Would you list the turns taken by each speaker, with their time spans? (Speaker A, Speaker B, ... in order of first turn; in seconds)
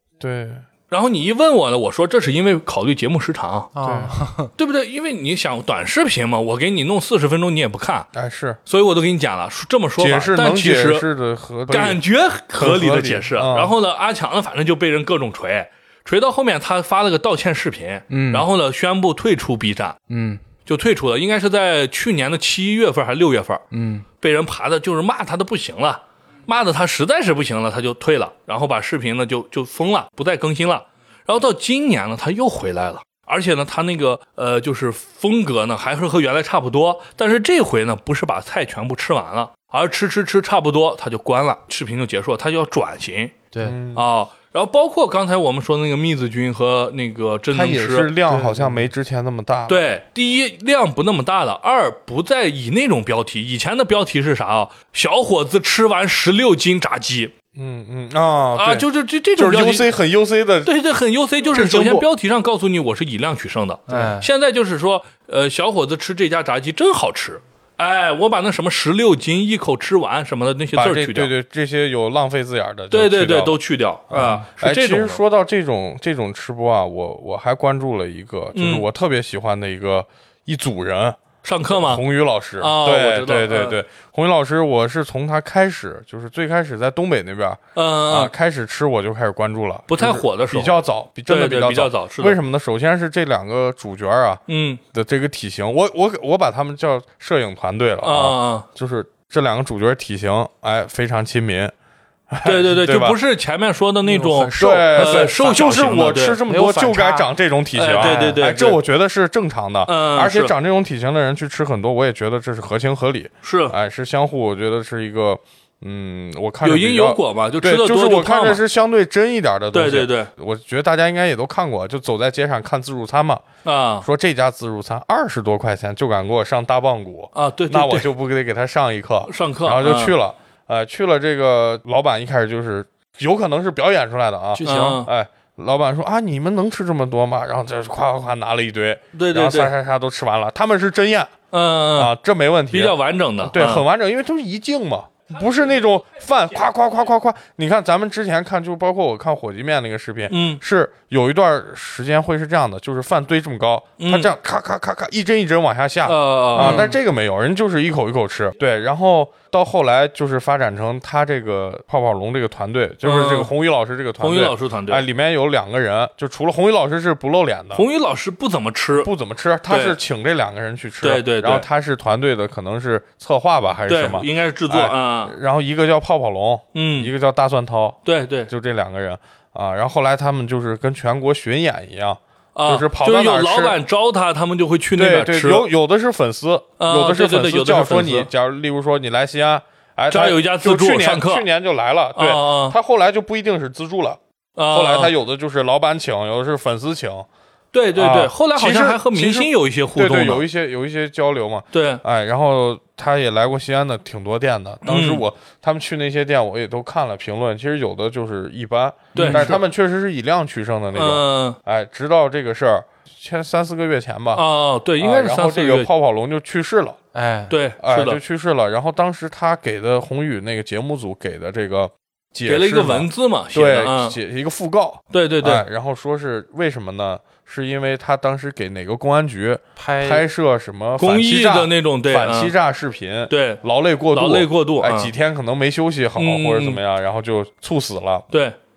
Speaker A: 0.2-0.6, 3.8-4.1, 8.2-8.6, 10.0-12.0, 12.5-13.7, 43.6-44.0, 47.5-49.8, 57.6-60.7, 70.7-73.6, 74.1-101.7, 102.3-103.2, 104.6-123.4, 124.0-141.3, 142.0-167.9, 169.0-183.8, 184.9-197.3, 198.0-214.4, 215.0-217.0, 217.8-238.3
Speaker B: 0.9-3.7, 4.6-8.1, 8.7-11.1, 11.7-20.0, 20.7-23.6, 24.2-48.1, 49.7-57.3, 58.6-59.9, 60.6-71.3, 72.9-75.2, 78.5-78.9, 81.4-82.0, 82.6-83.8, 87.8-88.3, 89.9-92.4, 94.5-94.8, 98.0-98.7, 102.4-106.4, 107.8-108.8, 109.9-110.5, 113.4-113.8, 116.6-118.6, 119.7-120.3, 123.7-124.1, 127.3-128.1, 129.3-130.2, 134.7-135.1, 139.1-139.7, 141.5-142.1, 142.7-143.8, 150.3-150.6, 154.0-154.3, 156.1-156.9, 163.0-163.5, 164.2-165.1, 167.8-169.1, 169.7-170.0, 171.0-171.7, 173.9-175.3, 176.8-177.1, 178.1-178.5, 182.6-185.7, 186.8-188.3, 190.1-191.4, 192.2-192.8, 194.6-195.1, 197.7-200.5, 201.7-202.0, 204.8-205.2, 209.2-209.6, 210.9-211.6, 214.3-215.9, 217.5-218.2, 222.5-224.2, 225.1-225.6, 231.0-232.5, 233.3-233.6, 234.1-235.1, 236.2-236.8
Speaker C: 3.8-4.5, 18.1-18.5, 20.1-20.4, 23.7-24.0, 43.5-43.8, 48.3-48.8, 61.5-62.1, 63.9-64.3, 104.0-105.7, 106.5-107.3, 107.9-108.4, 134.5-135.0, 156.6-156.9, 209.2-209.6, 217.1-217.6, 229.8-230.2